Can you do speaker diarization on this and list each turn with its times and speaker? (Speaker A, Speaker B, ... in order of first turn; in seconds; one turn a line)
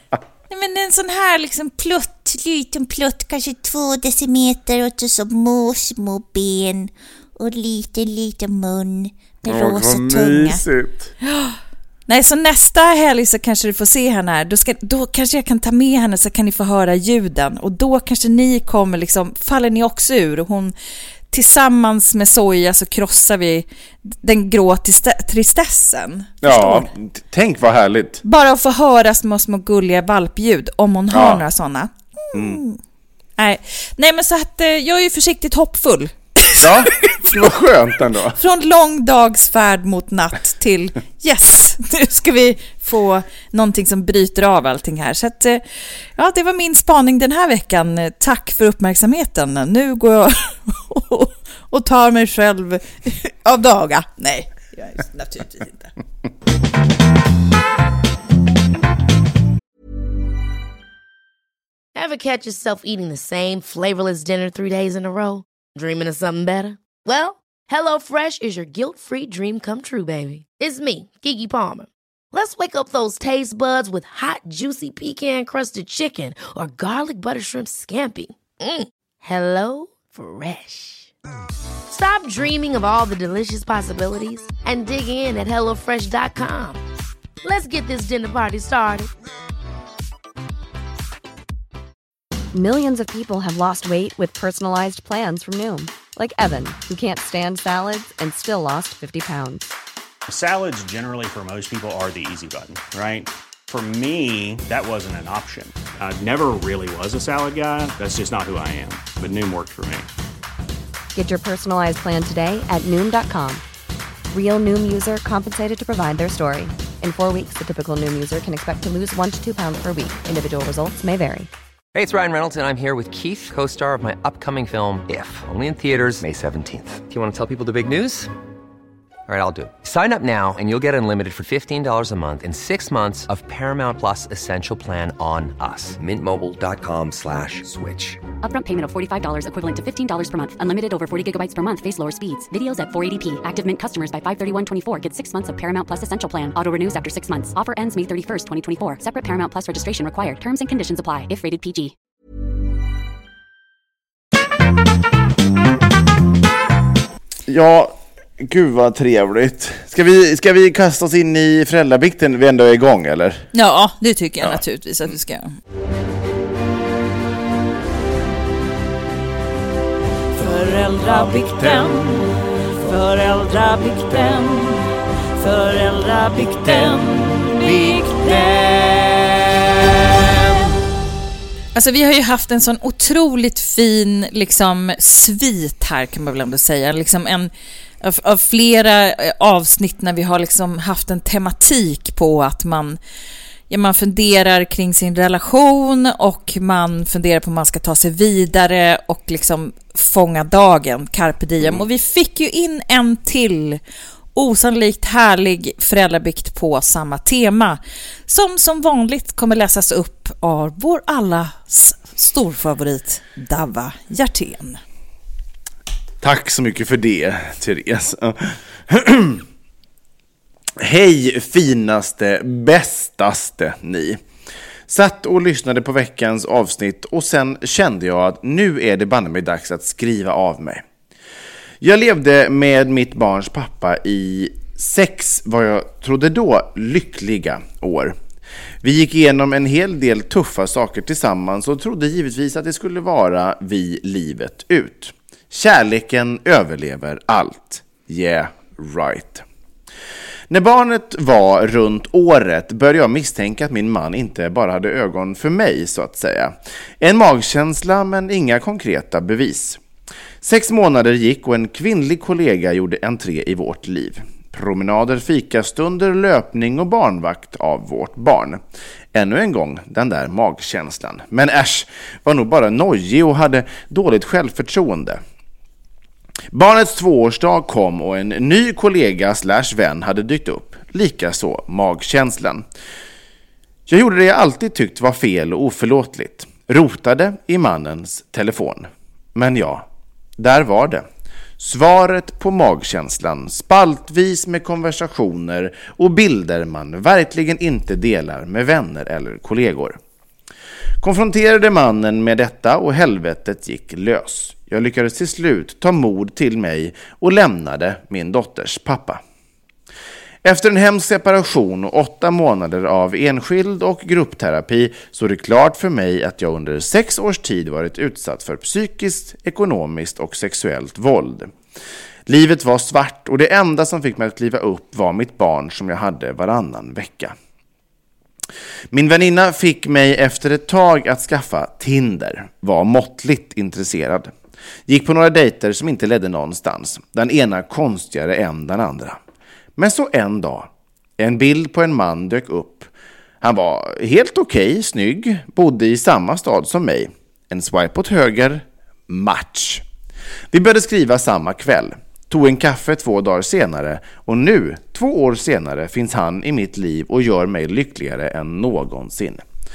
Speaker A: 0.5-2.4
Speaker B: 2.3-10.6
Speaker C: 9.5-11.1
Speaker A: 11.3-11.6
Speaker A: 12.1-20.7
Speaker A: 21.3-26.9
Speaker C: 26.4-28.2
Speaker A: 28.2-32.8
Speaker C: 31.1-31.4
Speaker C: 32.3-32.6
Speaker A: 33.4-37.4
Speaker C: 36.6-38.4
Speaker A: 38.4-45.6
Speaker A: 46.2-55.9
Speaker D: 62.0-81.1
Speaker D: 81.9-86.8
Speaker D: 87.4-89.1
Speaker E: 92.5-99.7
Speaker F: 100.3-110.1
Speaker E: 111.1-113.6
Speaker E: 114.3-121.5
Speaker G: 122.0-128.3
Speaker G: 129.3-138.2
Speaker H: 138.4-151.9
Speaker C: 157.5-163.5
Speaker A: 163.5-165.6
Speaker A: 170.4-174.8
Speaker C: 171.3-171.9
Speaker A: 175.4-179.2
Speaker A: 181.7-187.5
Speaker A: 188.0-193.0
Speaker A: 193.7-203.8
Speaker A: 204.3-214.8
Speaker C: 216.2-219.4
Speaker C: 220.8-224.2
Speaker C: 224.9-230.8
Speaker C: 231.8-238.2
Speaker C: 238.8-249.4
Speaker C: 250.5-259.8
Speaker C: 260.4-268.6
Speaker C: 269.1-275.2
Speaker C: 276.5-282.6
Speaker C: 283.9-289.9
Speaker C: 290.4-291.1
Speaker C: 291.6-300.0
Speaker C: 301.0-309.2
Speaker C: 310.4-321.5
Speaker C: 322.3-327.4
Speaker C: 328.9-334.3
Speaker C: 334.9-339.2
Speaker C: 339.8-342.9
Speaker C: 343.4-349.8
Speaker C: 350.5-359.4